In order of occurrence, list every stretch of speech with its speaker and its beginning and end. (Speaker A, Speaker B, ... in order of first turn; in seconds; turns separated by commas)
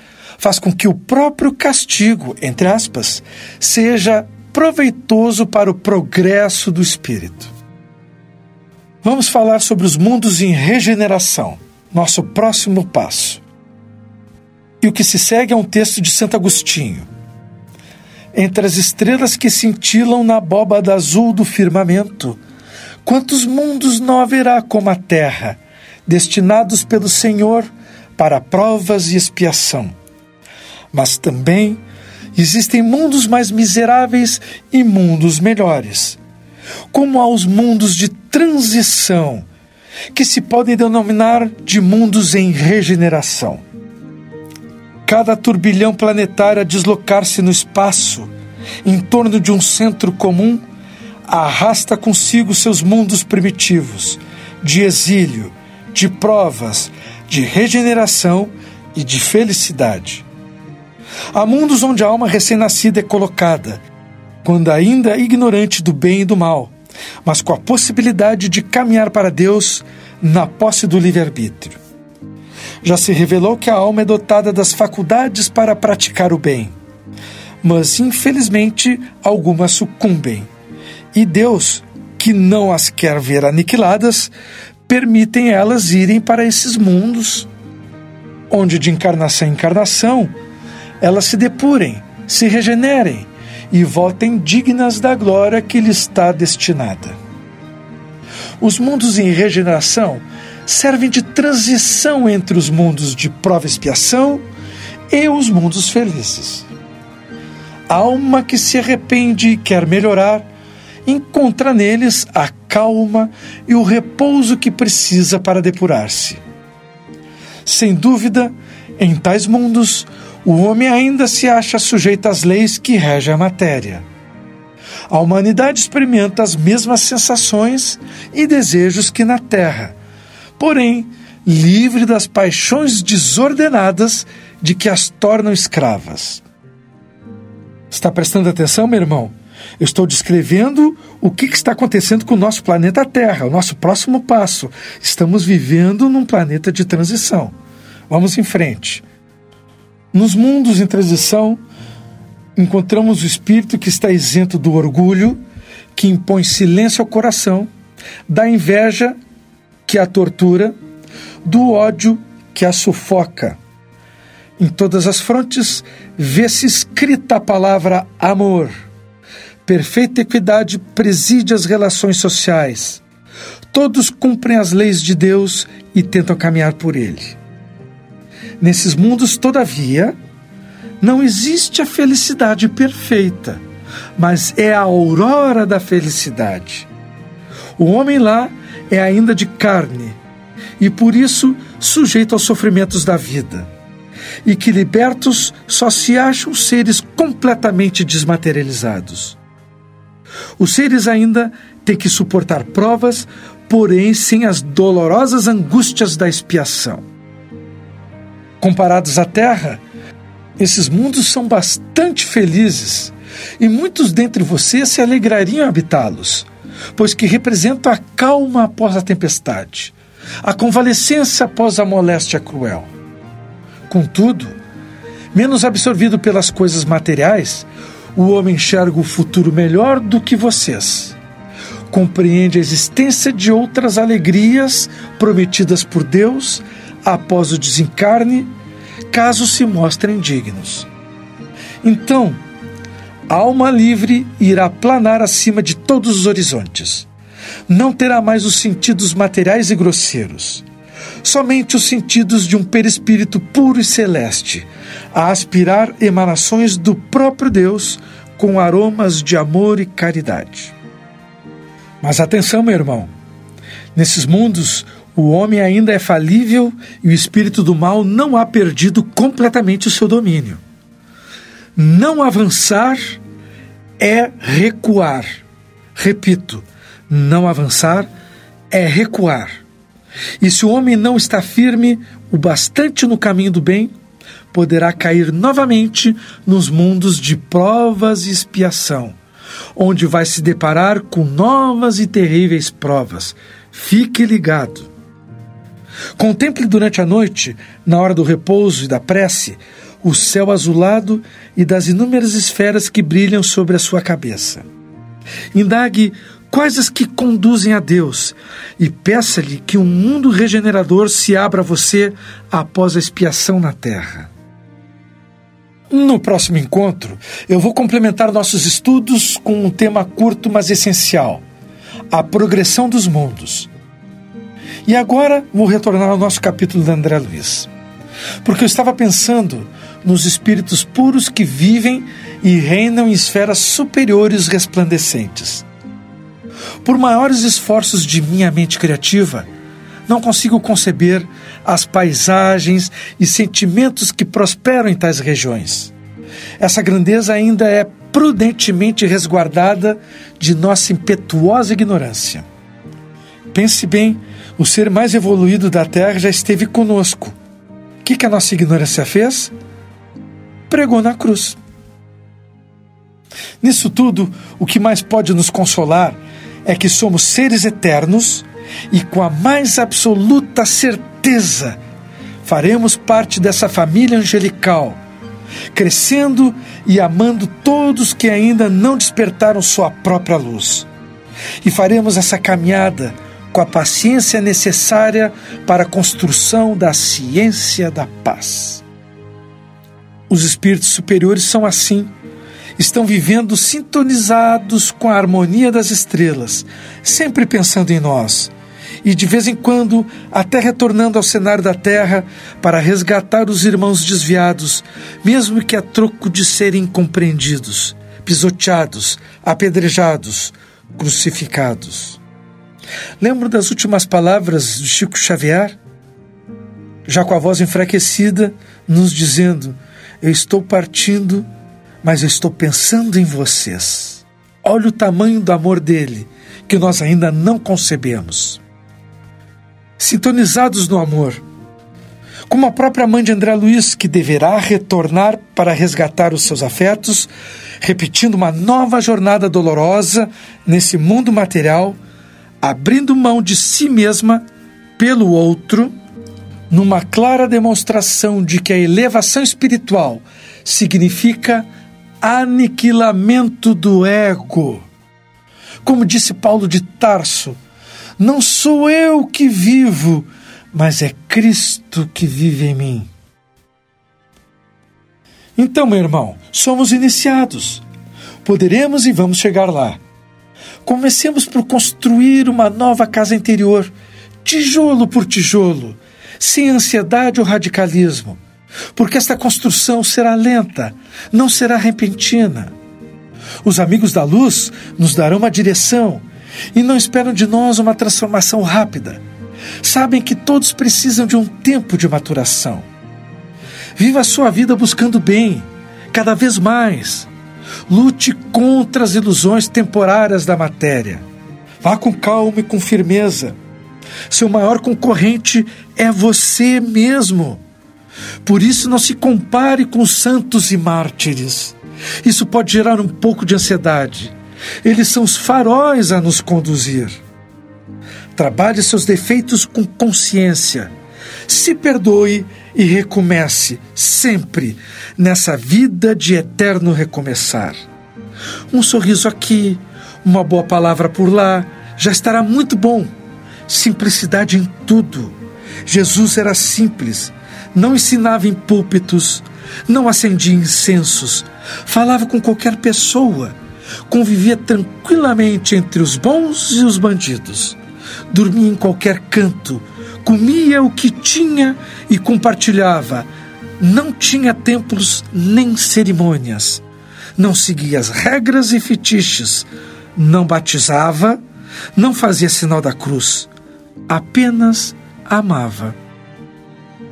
Speaker A: 0.4-7.5, Speaker A: 9.0-13.4, Speaker A: 14.8-17.1, Speaker A: 18.3-22.4, Speaker A: 23.0-29.9, Speaker A: 30.9-31.8, Speaker A: 32.3-36.2, Speaker A: 36.9-39.4, Speaker A: 40.1-43.6, Speaker A: 45.0-48.3, Speaker A: 48.8-50.6, Speaker A: 51.3-60.2, Speaker A: 61.3-63.8, Speaker A: 64.4-66.7, Speaker A: 67.2-71.8, Speaker A: 72.8-76.7, Speaker A: 77.6-80.5, Speaker A: 81.1-84.3, Speaker A: 84.9-87.5, Speaker A: 88.5-90.3, Speaker A: 91.0-97.2, Speaker A: 98.6-104.4, Speaker A: 105.1-106.7, Speaker A: 107.9-110.5, Speaker A: 111.0-116.4, Speaker A: 117.6-124.0, Speaker A: 125.1-129.9, Speaker A: 130.6-136.4, Speaker A: 137.9-147.5, Speaker A: 148.1-149.0, Speaker A: 150.1-151.6, Speaker A: 152.6-155.4, Speaker A: 155.9-157.7, Speaker A: 158.3-159.2, Speaker A: 159.9-160.7, Speaker A: 161.4-163.6, Speaker A: 164.6-168.9, Speaker A: 169.7-173.0, Speaker A: 173.7-177.4, Speaker A: 178.6-180.1, Speaker A: 181.0-183.6, Speaker A: 184.2-186.9, Speaker A: 187.8-190.2, Speaker A: 190.8-193.7, Speaker A: 194.4-199.4, Speaker A: 200.6-207.0, Speaker A: 208.6-209.8, Speaker A: 210.6-222.9, Speaker A: 223.9-224.6, Speaker A: 225.3-231.2, Speaker A: 231.9-238.5, Speaker A: 239.1-240.9, Speaker A: 241.8-242.4, Speaker A: 243.3-247.1, Speaker A: 247.7-250.6, Speaker A: 251.2-260.7, Speaker A: 262.0-263.1, Speaker A: 263.9-270.6, Speaker A: 271.8-273.2, Speaker A: 274.0-275.4, Speaker A: 275.9-278.1, Speaker A: 278.7-279.6, Speaker A: 280.4-283.9, Speaker A: 284.5-289.2, Speaker A: 289.8-294.9, Speaker A: 296.2-304.6, Speaker A: 305.5-314.3, Speaker A: 315.9-321.4, Speaker A: 322.1-323.7, Speaker A: 324.9-327.7, Speaker A: 328.4-335.6, Speaker A: 336.8-339.5, Speaker A: 340.1-345.9, Speaker A: 346.6-352.4, Speaker A: 353.5-357.4, Speaker A: 358.0-359.5, Speaker A: 360.7-361.6, Speaker A: 363.6-371.8, Speaker A: 372.4-375.0, Speaker A: 375.7-380.9, Speaker A: 381.6-388.8, Speaker A: 390.3-392.1, Speaker A: 392.8-398.5, Speaker A: 399.0-412.2, Speaker A: 413.2-415.8, Speaker A: 417.1-421.5, Speaker A: 422.0-428.6, Speaker A: 430.0-431.4, Speaker A: 432.5-437.3, Speaker A: 437.8-442.0, Speaker A: 442.6-444.4, Speaker A: 445.0-445.9, Speaker A: 446.7-451.7, Speaker A: 452.2-454.9, Speaker A: 455.8-457.6, Speaker A: 458.2-463.1, Speaker A: 465.6-467.8, Speaker A: 468.4-470.0, Speaker A: 470.8-473.9, Speaker A: 474.4-478.4, Speaker A: 478.9-482.7, Speaker A: 483.6-489.2, Speaker A: 489.8-492.9, Speaker A: 493.9-497.3, Speaker A: 497.9-501.2, Speaker A: 501.8-503.6, Speaker A: 504.3-507.6, Speaker A: 508.4-517.2, Speaker A: 518.3-520.9, Speaker A: 521.5-527.7, Speaker A: 528.7-533.1, Speaker A: 533.7-543.5, Speaker A: 544.1-547.8, Speaker A: 548.3-553.3, Speaker A: 553.8-556.8, Speaker A: 557.4-561.4, Speaker A: 561.9-563.5, Speaker A: 564.1-566.0